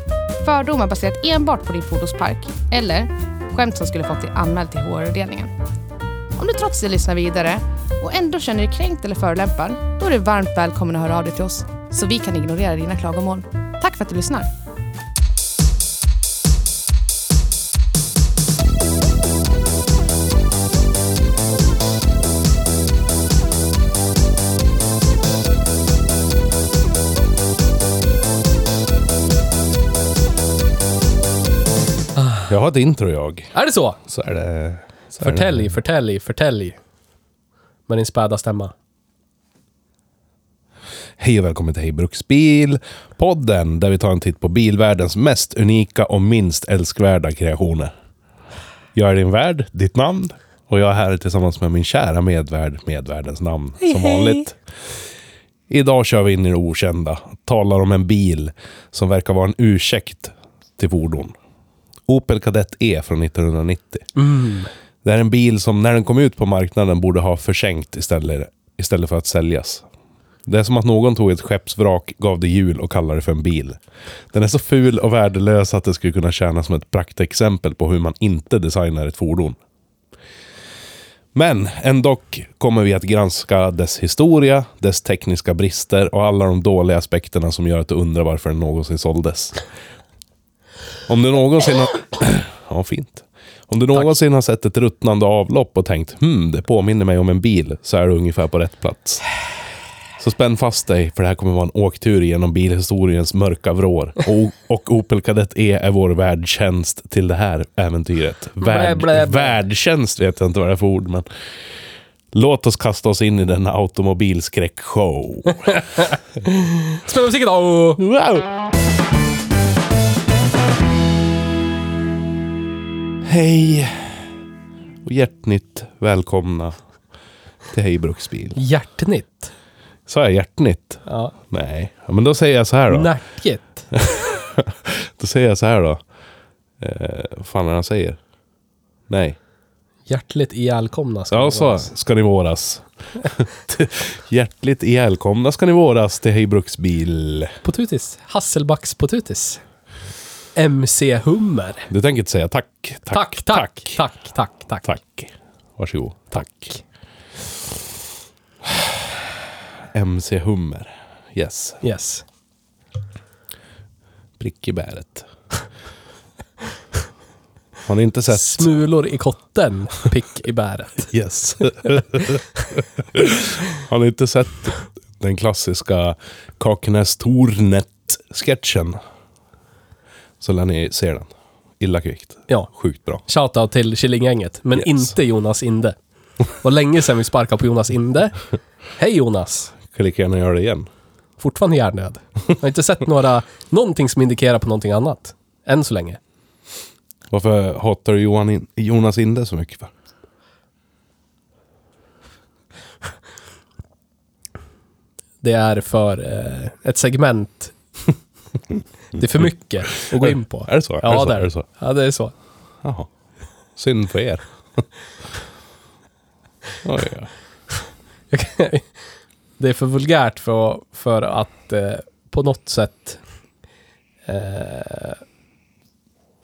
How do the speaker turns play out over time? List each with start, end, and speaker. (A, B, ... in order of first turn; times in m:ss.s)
0:00.4-0:05.5 A
0:06.4-0:14.5 A
0:32.2-0:32.5 B
0:32.5-0:33.5 C
0:33.5-0:34.0 B
0:34.1-0:35.7 C
0:35.2-0:36.8 B
0:37.9-0:38.7 B
0:41.2-0:47.9 C
0:49.0-0:54.6 C
0:55.7-1:01.4 C
1:02.1-1:04.1 C
1:04.2-1:04.7 B
1:05.0-1:09.9 C
1:10.5-1:13.8 C
1:14.3-1:19.6 C
1:21.3-1:29.6 C
1:31.1-1:39.2 C
1:40.2-1:51.3 C
1:48.6-1:49.6 B
1:52.3-1:55.7 C
1:55.7-1:58.0 B
1:58.0-1:58.6 C
2:03.2-2:04.3 C
2:05.0-2:06.8 C
2:07.7-2:08.6 C
2:08.6-2:09.5 B
2:10.1-2:13.1 C
2:11.1-2:11.4 B
2:12.9-2:14.0 B
2:14.0-2:16.0 C
2:16.8-2:18.2 C
2:19.1-2:19.4 C
2:20.1-2:21.9 B
2:21.3-2:27.6 C
2:27.6-2:29.6 B
2:30.6-2:31.9 B
2:31.9-2:34.0 C
2:33.1-2:34.9 B
2:34.8-2:36.7 C
2:36.3-2:36.8 B
2:39.9-2:41.8 C
2:41.8-2:42.2 B
2:44.4-2:45.3 C
2:47.9-2:48.7 C
2:48.3-2:51.1 B
2:51.1-2:59.0 C
3:00.4-3:03.2 C
3:03.2-3:06.0 B
3:04.8-3:05.1 C
3:06.6-3:08.4 B
3:09.0-3:09.8 B
3:09.9-3:10.9 C
3:11.4-3:16.2 B
3:17.3-3:19.9 C
3:25.4-3:27.8 B
3:29.1-3:32.3 B
3:30.1-3:31.6 C
3:32.8-3:33.1 C
3:33.8-3:34.8 C
3:36.8-3:37.3 C
3:38.3-3:38.9 B
3:39.6-3:43.2 B
3:44.3-3:45.2 B